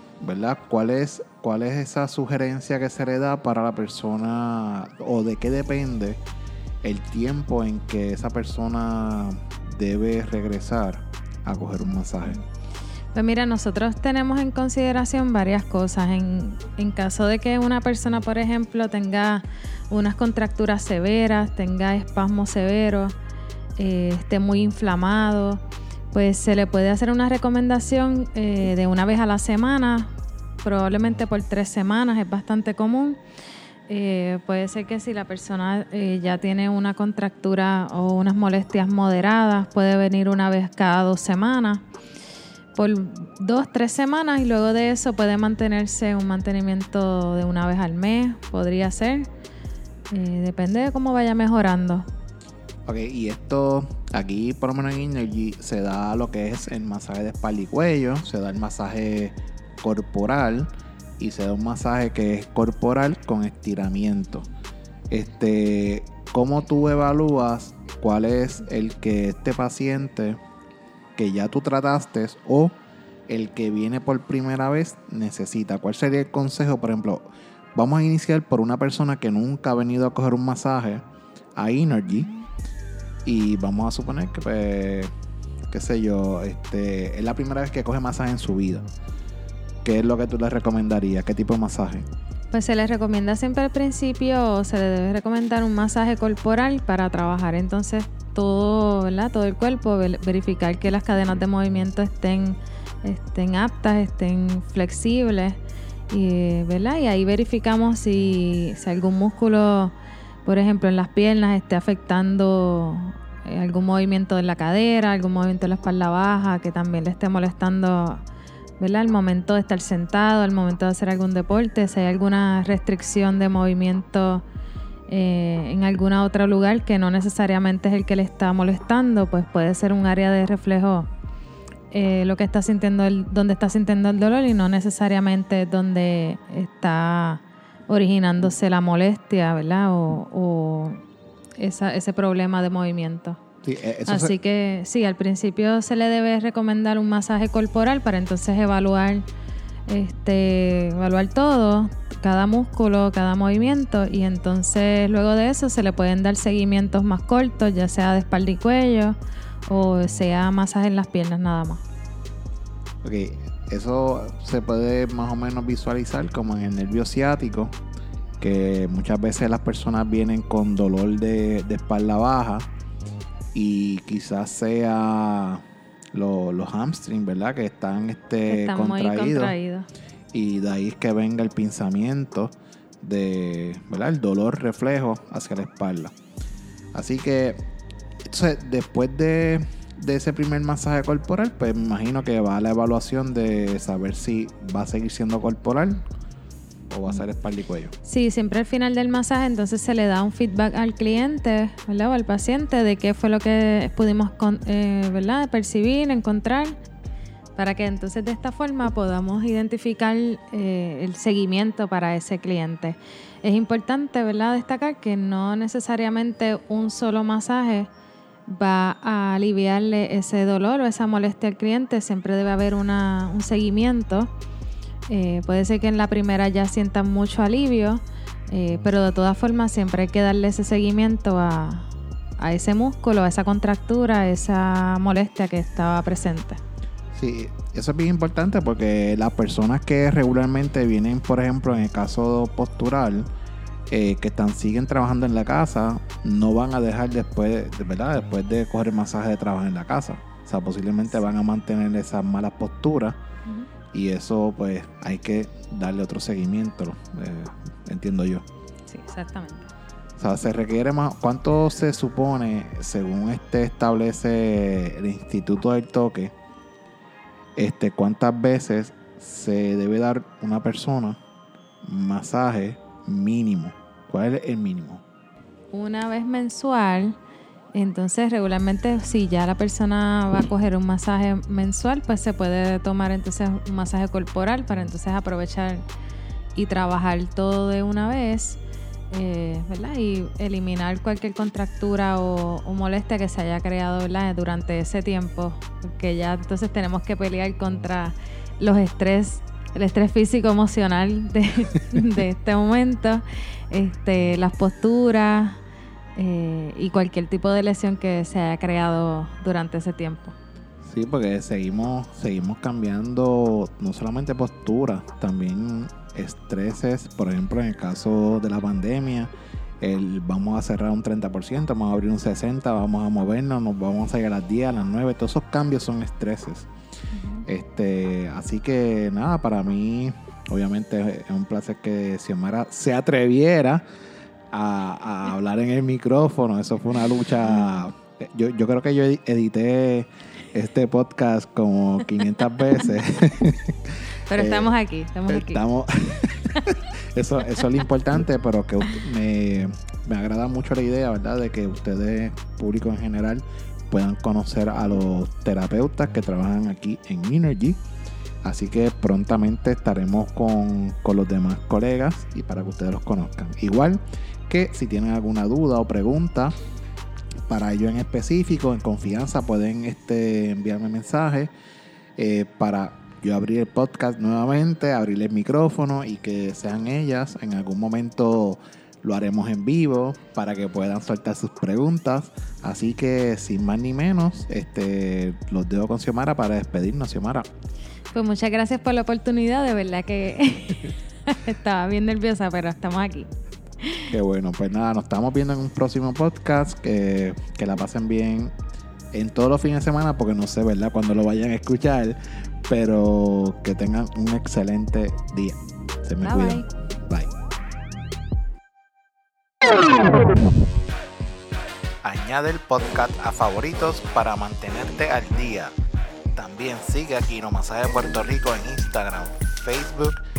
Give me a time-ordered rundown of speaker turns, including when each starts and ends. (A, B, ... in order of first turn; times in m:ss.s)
0:00.2-0:06.2 A
0:06.8-0:12.4 A
0:13.1-0:23.1 B
0:23.8-0:25.6 B
0:26.1-0:33.2 B
0:33.9-0:41.8 B
0:42.7-0:49.3 B
0:50.1-0:52.0 B
0:52.8-1:04.5 A
1:05.1-1:10.4 A
1:11.2-1:12.7 A
1:13.3-1:21.0 A
1:21.6-1:22.3 A
1:23.2-1:25.1 A
1:25.7-1:28.8 A
1:29.8-1:32.0 A
1:32.5-1:45.6 B
1:46.1-1:49.9 B
1:50.4-1:58.2 B
1:58.8-2:04.4 B
2:05.1-2:11.1 B
2:11.9-2:21.0 B
2:21.6-2:23.4 B
2:23.6-2:24.3 A
2:24.0-2:29.2 B
2:29.9-2:39.2 B
2:39.7-2:41.8 B
2:43.0-2:47.7 A
2:48.4-2:52.7 A
2:53.5-2:59.5 A
2:58.5-2:59.9 B
3:00.3-3:06.1 A
3:06.9-3:07.6 A
3:08.3-3:16.0 A
3:16.9-3:17.9 A
3:18.0-3:26.8 B
3:27.6-3:37.9 B
3:38.5-3:44.3 B
3:45.1-3:56.6 B
3:57.1-4:03.3 A
4:03.9-4:13.2 A
4:13.9-4:18.4 A
4:18.9-4:19.7 B
4:20.2-4:26.3 A
4:27.6-4:31.2 A
4:31.8-4:35.0 A
4:35.7-4:37.2 B
4:37.7-4:45.8 B
4:46.5-4:48.6 B
4:49.1-5:05.6 B
5:06.2-5:10.3 B
5:10.8-5:26.7 A
5:27.1-5:27.4 B
5:27.4-5:33.8 A
5:34.5-5:44.7 A
5:37.5-5:37.8 B
5:44.3-5:45.6 B
5:45.3-5:57.8 A
5:58.4-6:06.5 A
6:07.5-6:11.5 A
6:12.2-6:27.5 A
6:28.1-6:33.3 B
6:33.8-6:34.1 B
6:34.1-6:38.5 A
6:39.1-6:47.3 A
6:46.2-6:46.7 B
6:52.0-6:55.7 A
6:56.3-7:00.2 A